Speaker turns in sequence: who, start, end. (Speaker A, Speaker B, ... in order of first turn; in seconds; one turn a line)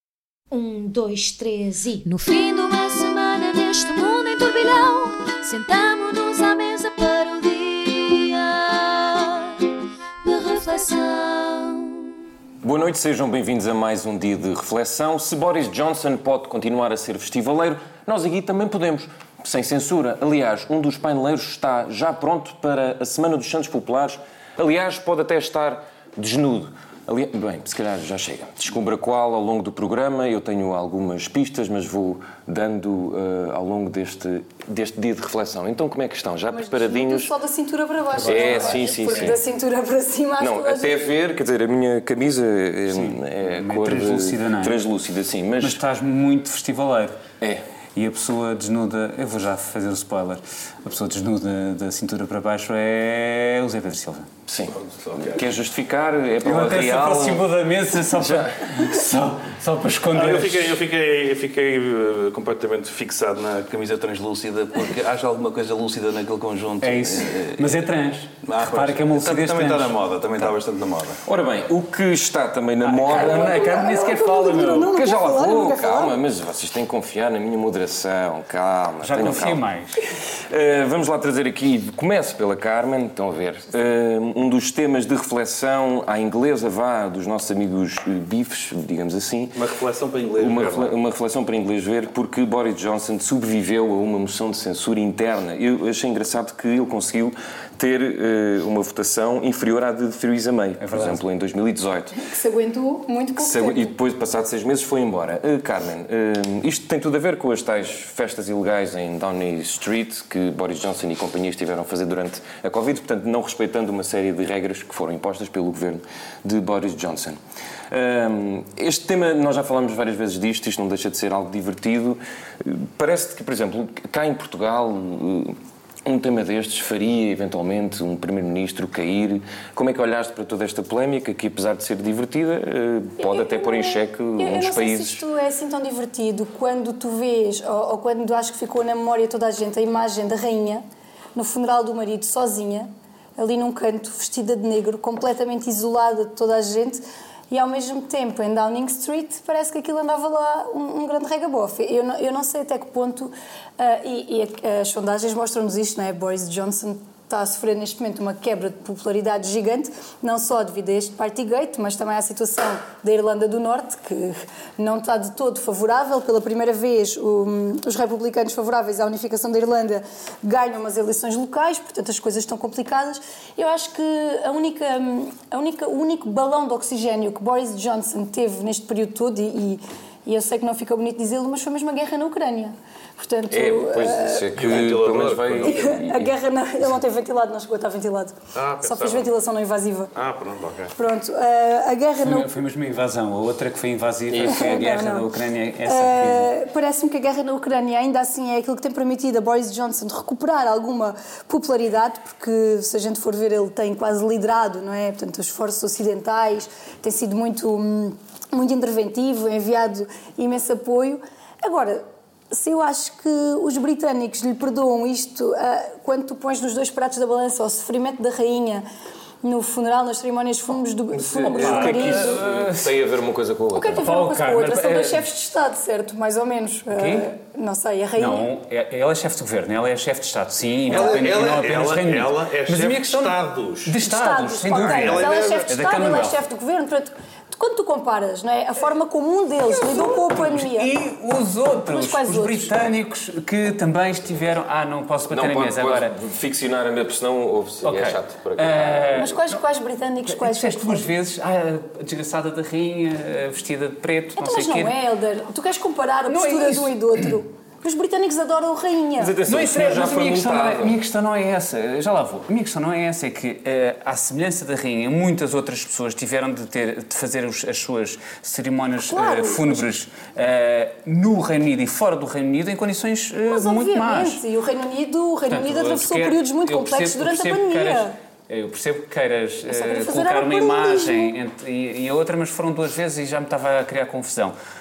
Speaker A: 0.5-9.7
Speaker A: 10.2-12.1
Speaker B: 12.6-37.3
Speaker C: 36.5-41.0
Speaker D: 38.1-39.1
Speaker B: 38.2-39.4
Speaker B: 40.4-45.8
Speaker D: 42.9-44.8
Speaker D: 45.6-47.2
Speaker D: 48.0-54.3
Speaker B: 54.5-57.4
Speaker E: 54.8-55.4
Speaker D: 56.4-60.8
Speaker B: 58.2-58.8
Speaker E: 60.1-67.9
Speaker D: 66.8-70.5
Speaker E: 68.4-71.2
Speaker B: 71.3-73.7
Speaker D: 72.8-75.0
Speaker C: 73.1-76.2
Speaker B: 74.9-79.6
Speaker D: 79.0-80.0
Speaker B: 80.5-89.6
Speaker E: 89.5-90.9
Speaker B: 90.4-102.2
Speaker D: 100.8-101.2
Speaker C: 102.2-103.9
Speaker B: 103.4-117.4
Speaker B: 117.9-135.2
Speaker C: 133.2-140.8
Speaker C: 141.3-184.6
Speaker B: 183.5-186.3
Speaker E: 184.6-186.0
Speaker C: 185.6-190.1
Speaker E: 188.6-189.3
Speaker E: 190.2-190.9
Speaker C: 191.0-192.5
Speaker D: 192.2-196.5
Speaker B: 194.3-194.7
Speaker C: 194.4-195.3
Speaker C: 195.8-218.9
Speaker C: 219.4-222.4
Speaker B: 221.1-224.1
Speaker D: 221.5-223.0
Speaker C: 223.7-228.5
Speaker D: 224.0-225.3
Speaker D: 226.9-227.3
Speaker D: 228.2-236.4
Speaker E: 230.9-234.0
Speaker C: 230.9-231.2
Speaker C: 234.0-240.9
Speaker E: 234.7-235.7
Speaker D: 239.7-246.1
Speaker C: 241.9-242.7
Speaker B: 245.3-249.3
Speaker D: 247.8-249.6
Speaker C: 249.2-251.1
Speaker D: 250.3-254.9
Speaker C: 254.4-259.3
Speaker D: 256.3-257.3
Speaker B: 259.2-261.0
Speaker D: 259.5-274.4
Speaker C: 269.1-269.9
Speaker C: 273.5-278.1
Speaker D: 275.5-284.6
Speaker C: 279.7-281.3